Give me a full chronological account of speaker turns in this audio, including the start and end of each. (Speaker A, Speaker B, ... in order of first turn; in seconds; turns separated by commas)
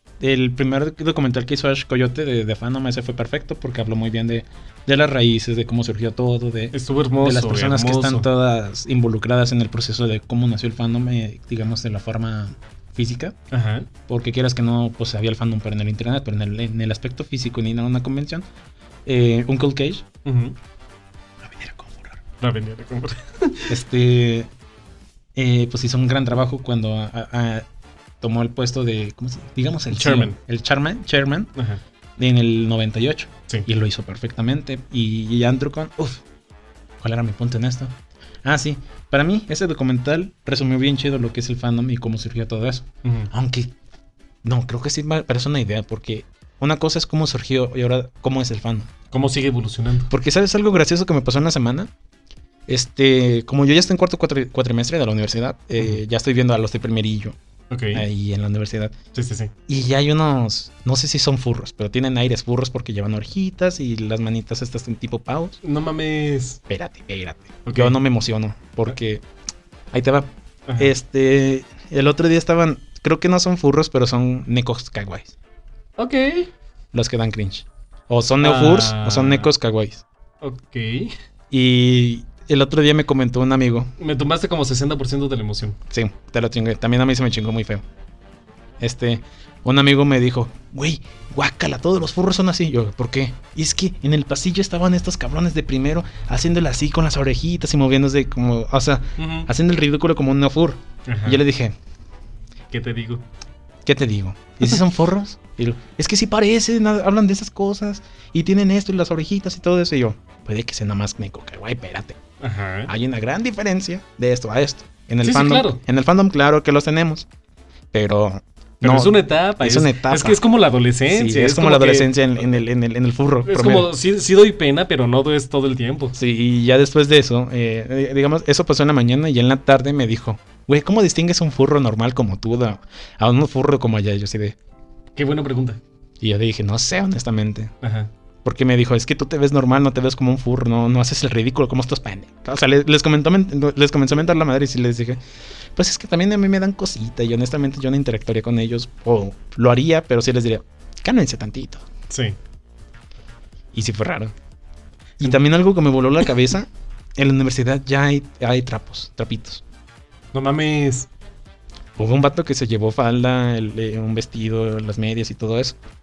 Speaker A: 0.2-13.4, Speaker B: 6.7-8.3, Speaker B: 13.5-13.9, Speaker A: 14.1-18.5, Speaker A: 19.1-20.1, Speaker B: 20.2-20.6, Speaker A: 21.4-22.2, Speaker B: 22.4-23.8, Speaker A: 23.7-24.5, Speaker A: 25.4-27.7, Speaker A: 28.2-31.5, Speaker B: 29.9-30.4, Speaker B: 31.6-31.8, Speaker A: 32.2-36.2, Speaker A: 37.0-43.7, Speaker B: 43.0-43.3, Speaker A: 44.4-48.9, Speaker B: 49.1-50.1, Speaker A: 50.1-51.9, Speaker A: 52.7-57.4, Speaker B: 57.7-58.0, Speaker A: 57.9-58.9, Speaker B: 59.1-59.5, Speaker A: 59.7-65.6, Speaker B: 65.6-66.6, Speaker A: 66.7-69.2, Speaker B: 67.7-68.0, Speaker A: 69.9-75.3, Speaker B: 70.7-70.9, Speaker B: 76.0-76.5, Speaker A: 76.9-80.0, Speaker B: 78.4-79.5, Speaker B: 80.4-81.1, Speaker A: 81.5-83.9, Speaker B: 84.0-85.8, Speaker A: 85.9-87.8, Speaker A: 88.8-101.8, Speaker B: 99.2-99.5, Speaker B: 101.1-101.4, Speaker B: 102.7-103.2, Speaker A: 103.8-112.2, Speaker B: 112.4-112.9, Speaker A: 112.9-117.3, Speaker B: 115.2-115.8, Speaker A: 117.9-120.4, Speaker B: 118.8-122.2, Speaker A: 121.1-123.9, Speaker B: 123.5-126.2, Speaker A: 126.2-134.6, Speaker B: 135.2-135.8, Speaker A: 136.2-137.7, Speaker B: 137.8-138.1, Speaker A: 138.4-145.2, Speaker A: 145.8-151.8, Speaker B: 152.1-152.4, Speaker A: 153.7-154.3, Speaker A: 155.2-159.6, Speaker B: 160.3-161.1, Speaker A: 162.0-165.8